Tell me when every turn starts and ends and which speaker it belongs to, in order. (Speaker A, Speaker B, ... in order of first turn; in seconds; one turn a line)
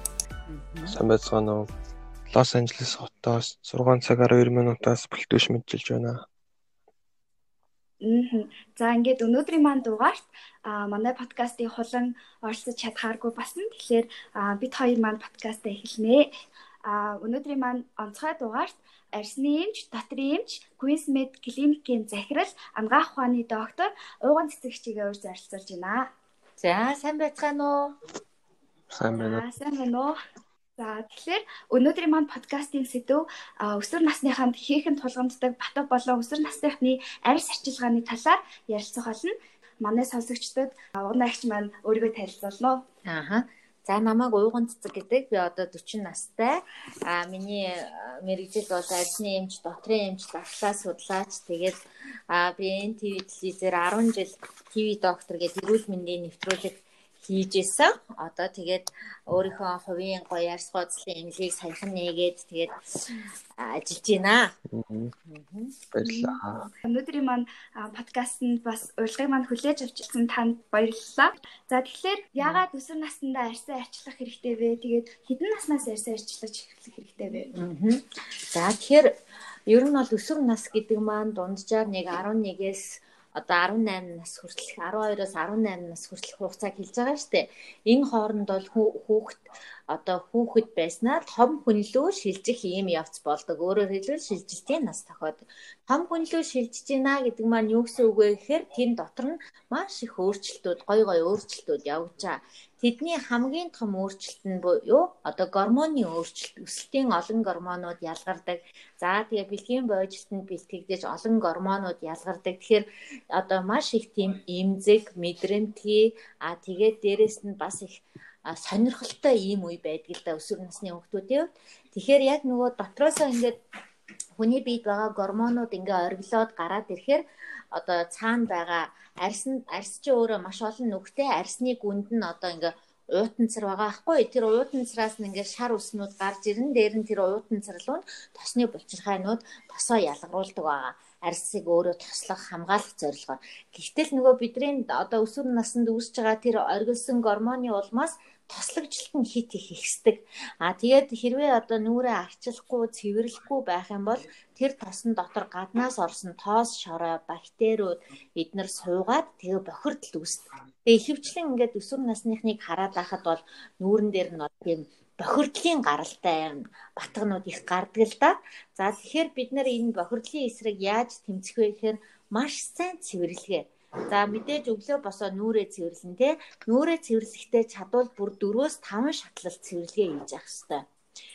Speaker A: 0.5-1.0
Speaker B: 0.8-1.7
Speaker B: 2.3-6.2
Speaker C: 8.0-16.3
Speaker C: 16.8-26.1
Speaker A: 26.6-27.9
Speaker B: 28.9-29.4
Speaker C: 29.1-30.2
Speaker C: 30.8-42.8
Speaker A: 43.0-51.8
Speaker A: 52.3-64.5
Speaker B: 64.7-65.1
Speaker A: 65.2-65.7
Speaker B: 65.9-66.7
Speaker C: 66.0-77.5
Speaker A: 77.5-79.1
Speaker A: 79.7-123.6
Speaker A: 124.4-180.8